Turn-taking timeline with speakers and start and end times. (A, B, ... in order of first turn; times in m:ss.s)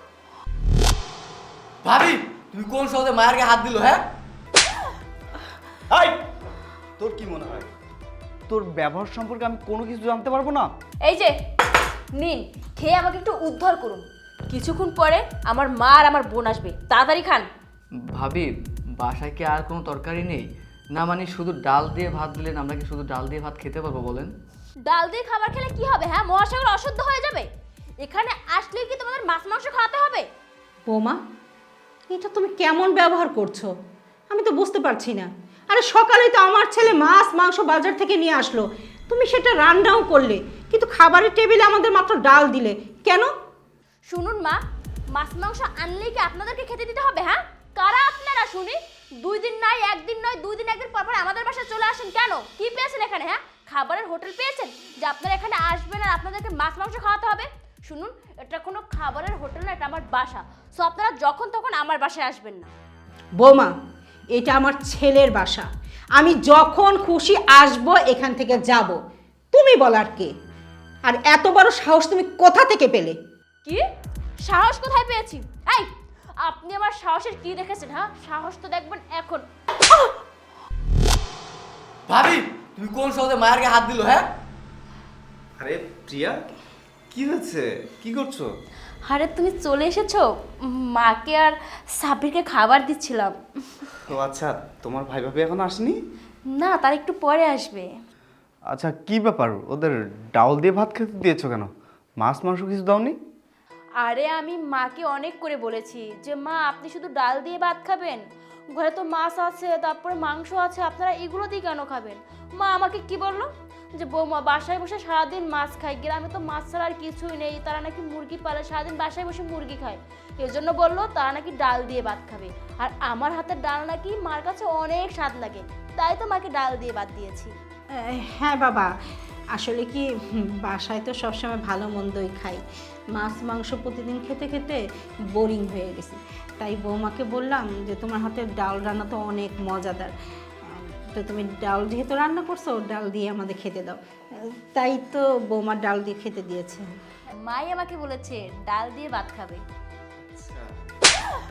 0:01.8-0:04.0 A
0:05.9-0:06.2 B
0:07.0-0:07.7 B
0:08.5-0:10.7 B
0:11.0-0:11.3 C
0:12.1-0:17.4 C
0:18.1-0:24.3 A
0:24.9-0:27.5 C
0:28.0-0:30.3 C
0:30.9-0:31.2 D
0:32.1-0:33.7 D
0:34.3-0:43.3 D
0:44.1-0:44.6 C
0:45.1-1:02.7 C
1:03.4-1:03.7 D
1:04.3-1:09.0 D
1:09.5-1:10.3 D
1:11.0-1:13.2 D
1:14.4-1:15.9 C
1:16.4-1:19.4 C
1:22.1-1:24.3 A
1:25.6-1:26.4 B
1:27.1-1:28.5 B
1:29.0-1:33.9 C
1:34.1-1:36.0 B
1:36.6-1:37.9 C
1:38.7-1:41.7 B
1:42.2-1:43.2 B
1:44.0-2:07.5 C
2:07.9-2:08.9 D
2:09.5-2:12.6 D
2:13.1-2:14.8 D
2:15.3-2:20.1 D
2:20.6-2:26.9 D
2:27.4-2:29.6 C
2:30.2-2:30.7 B